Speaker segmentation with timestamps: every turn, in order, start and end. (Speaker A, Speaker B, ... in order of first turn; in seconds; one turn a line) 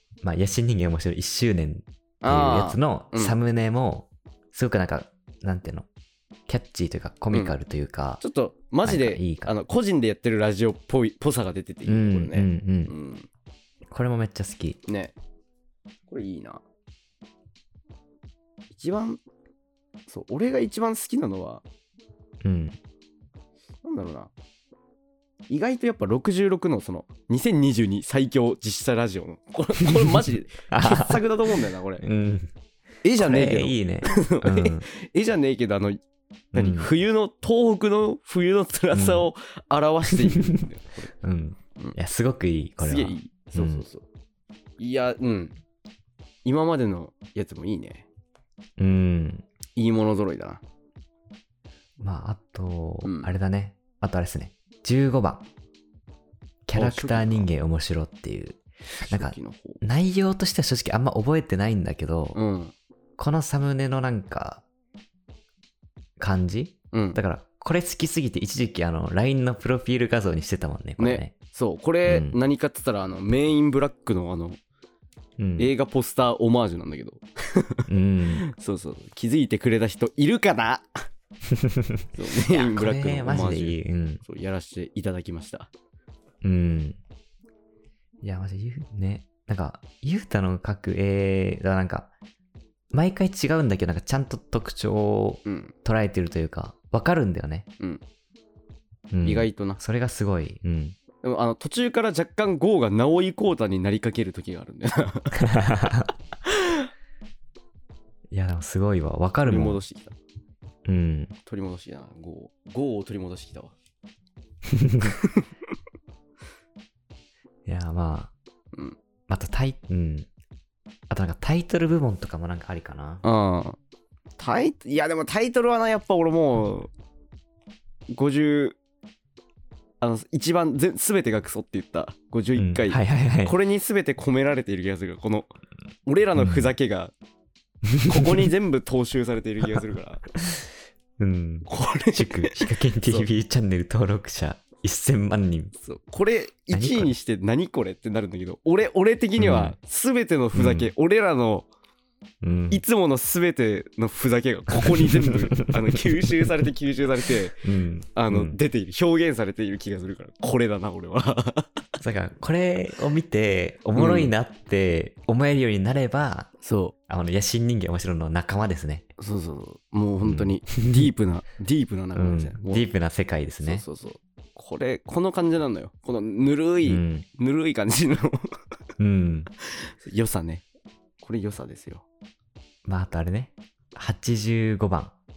Speaker A: 0.2-5.9
Speaker B: 2.2-3.4
Speaker A: 6.5-8.2
Speaker B: 7.3-7.6
Speaker B: 8.2-13.3
Speaker A: 8.8-9.5
Speaker A: 11.9-12.9
Speaker A: 13.9-14.8
Speaker B: 14.9-15.1
Speaker B: 16.1-16.6
Speaker B: 18.7-19.2
Speaker B: 20.1-21.6
Speaker A: 22.4-22.8
Speaker B: 23.8-24.3
Speaker B: 25.5-32.0
Speaker A: 30.7-31.3
Speaker A: 32.0-32.5
Speaker B: 33.0-36.0
Speaker A: 33.2-34.9
Speaker A: 36.5-36.9
Speaker B: 36.5-41.1
Speaker A: 38.9-39.3
Speaker A: 41.2-43.9
Speaker B: 42.8-44.0
Speaker B: 44.8-45.6
Speaker B: 46.5-48.1
Speaker A: 48.8-49.5
Speaker B: 49.8-50.6
Speaker A: 52.0-55.5
Speaker B: 53.0-53.3
Speaker A: 56.7-62.4
Speaker B: 56.7-57.5
Speaker B: 59.1-59.8
Speaker B: 62.3-62.7
Speaker A: 63.2-64.6
Speaker A: 66.2-71.3
Speaker B: 66.9-67.2
Speaker B: 71.0-74.6
Speaker A: 72.1-72.4
Speaker A: 75.4-75.7
Speaker B: 75.6-80.9
Speaker A: 77.9-78.4
Speaker A: 81.5-84.2
Speaker B: 82.2-85.7
Speaker A: 86.4-87.0
Speaker A: 88.2-92.1
Speaker A: 92.9-97.7
Speaker B: 95.5-95.7
Speaker A: 99.1-101.0
Speaker B: 99.2-99.8
Speaker B: 101.2-105.7
Speaker A: 105.4-106.1
Speaker B: 106.5-106.9
Speaker A: 108.3-109.8
Speaker B: 109.5-110.2
Speaker A: 110.9-111.3
Speaker B: 111.5-113.7
Speaker A: 114.7-115.1
Speaker B: 115.0-115.5
Speaker A: 117.7-118.3
Speaker B: 118.7-119.0
Speaker A: 119.3-120.3
Speaker A: 121.1-123.2
Speaker B: 123.2-123.8
Speaker B: 124.4-126.9
Speaker B: 128.1-128.8
Speaker B: 130.0-135.5
Speaker A: 132.6-133.6
Speaker B: 136.1-137.1
Speaker A: 136.4-136.7
Speaker A: 137.9-138.5
Speaker B: 138.0-140.2
Speaker A: 140.4-140.7
Speaker A: 141.2-145.7
Speaker B: 141.7-143.3
Speaker B: 145.8-151.7
Speaker A: 146.7-147.1
Speaker A: 149.4-149.8
Speaker A: 150.6-150.9
Speaker A: 152.4-152.8
Speaker B: 152.7-157.6
Speaker A: 154.9-156.0
Speaker A: 157.6-158.6
Speaker B: 158.2-161.8
Speaker A: 162.0-166.5
Speaker B: 163.9-164.3
Speaker B: 166.6-166.9
Speaker A: 167.1-169.1
Speaker B: 169.2-172.9
Speaker A: 170.2-171.1
Speaker A: 172.2-173.8
Speaker B: 173.6-178.6
Speaker A: 176.8-177.2
Speaker A: 179.0-179.5
Speaker B: 179.7-180.6
Speaker B: 181.2-182.1
Speaker A: 182.8-185.1